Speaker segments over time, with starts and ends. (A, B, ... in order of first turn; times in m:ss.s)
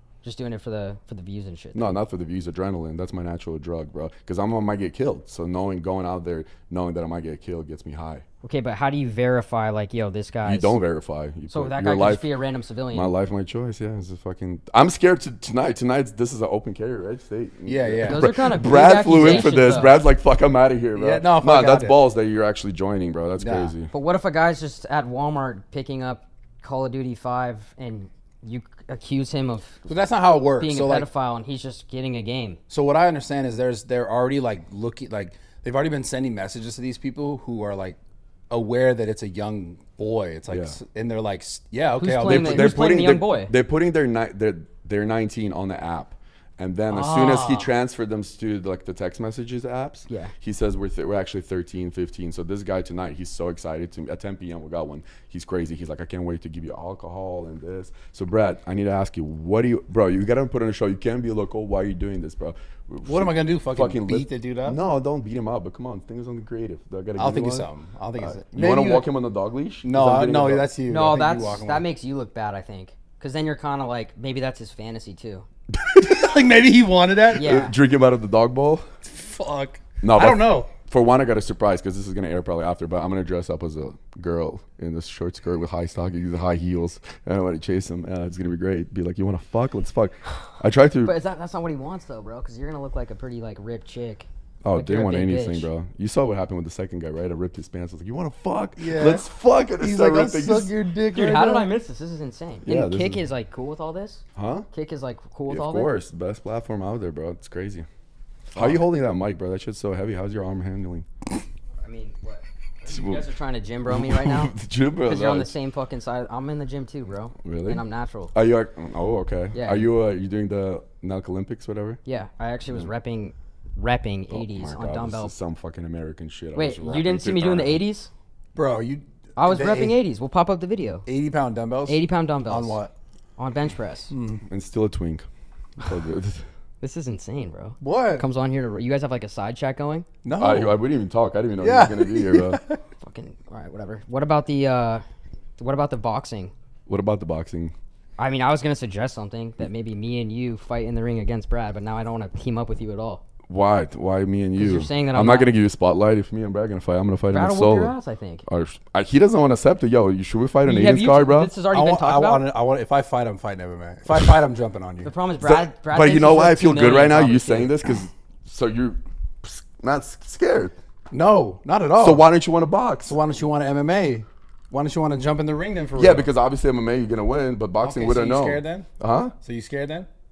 0:00.2-0:02.0 A
0:01.7-0:08.2 B
0:08.4-0:10.8 A
0:10.4-0:12.2 B
0:11.5-0:13.1 A
0:12.9-0:23.9 B
0:17.7-0:18.4 C
0:18.0-0:20.0 A
0:19.1-0:19.6 C
0:20.9-0:22.0 C
0:23.4-0:23.7 C
0:23.9-0:29.8 A
0:29.8-0:31.1 C
0:30.6-0:32.6 A
0:32.7-0:38.0 C
0:38.5-0:42.9 C
0:40.5-0:40.8 B
0:42.0-0:43.5 A
0:42.2-1:10.7 B
0:46.9-0:47.7 A
1:03.0-1:04.8 C
1:07.2-1:09.1 C
1:09.8-1:11.9 C
1:10.9-1:15.4 A
1:15.7-1:16.1 B
1:16.0-1:17.6 C
1:17.3-1:17.8 A
1:17.3-1:18.8 B
1:19.0-1:20.7 C
1:20.0-1:31.2 B
1:31.0-1:35.7 A
1:34.6-1:40.7 B
1:38.8-1:39.3 C
1:39.8-1:41.7 C
1:41.1-1:45.9 A
1:42.6-1:43.2 B
1:44.3-1:44.7 B
1:45.5-1:47.9 B
1:48.5-1:51.0 B
1:51.8-1:54.5 A
1:52.9-1:53.3 B
1:53.8-1:55.5 B
1:55.0-1:58.3 A
1:57.4-2:02.0 B
1:59.5-1:59.9 A
2:02.0-2:05.3 A
2:04.3-2:07.8 B
2:06.5-2:08.1 A
2:08.5-2:10.0 C
2:09.4-2:11.0 A
2:11.0-2:12.9 C
2:11.9-2:12.8 A
2:13.4-2:14.1 A
2:14.1-2:14.4 C
2:14.5-2:15.2 B
2:15.8-2:16.4 B
2:16.8-2:20.1 A
2:17.8-2:18.2 C
2:20.2-2:20.8 C
2:20.4-2:22.6 B
2:21.6-2:22.8 C
2:23.0-2:25.0 A
2:25.6-2:26.5 A
2:26.9-2:27.7 B
2:28.2-2:33.2 A
2:33.5-2:37.9 B
2:34.6-2:35.5 A
2:37.3-2:38.4 A
2:38.4-2:41.5 B
2:40.6-2:42.5 A
2:41.7-2:45.1 C
2:45.0-2:47.8 A
2:45.4-2:50.7 B
2:51.1-2:52.2 C
2:52.0-2:53.2 B
2:53.0-2:56.3 C
2:55.9-2:59.3 B
2:57.8-2:58.9 C
2:59.4-3:00.1 C